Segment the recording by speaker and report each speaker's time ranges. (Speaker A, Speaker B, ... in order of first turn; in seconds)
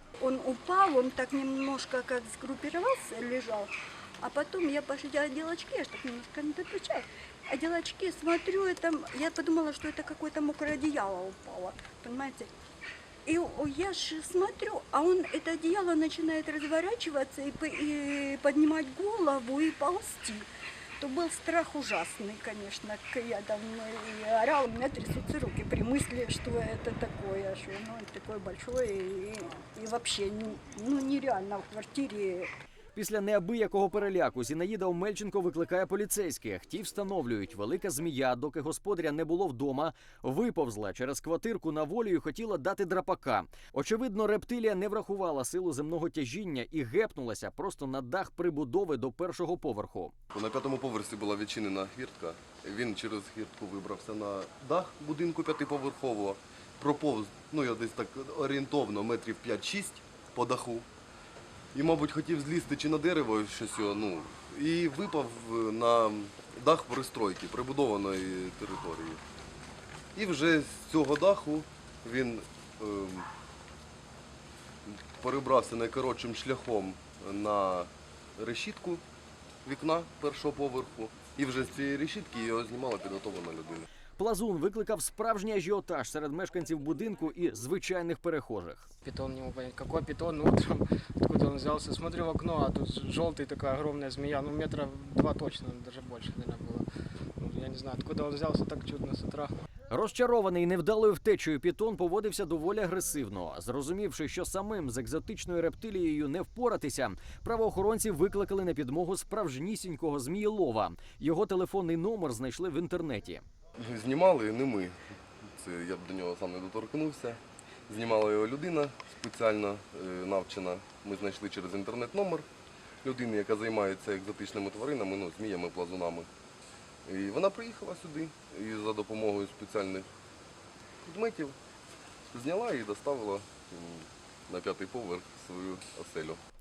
Speaker A: 0.2-3.7, 4.2-12.5, 13.2-20.4, 21.0-32.5
Speaker B: 32.9-50.1, 84.2-88.9, 99.9-113.4
Speaker C: 50.3-60.9, 61.7-69.2, 70.1-73.3, 74.9-79.0, 79.6-83.8, 113.8-115.0, 115.6-122.5, 123.0-126.3, 127.0-130.1, 131.1-131.6, 132.3-136.4
Speaker D: 89.0-96.9, 97.4-99.5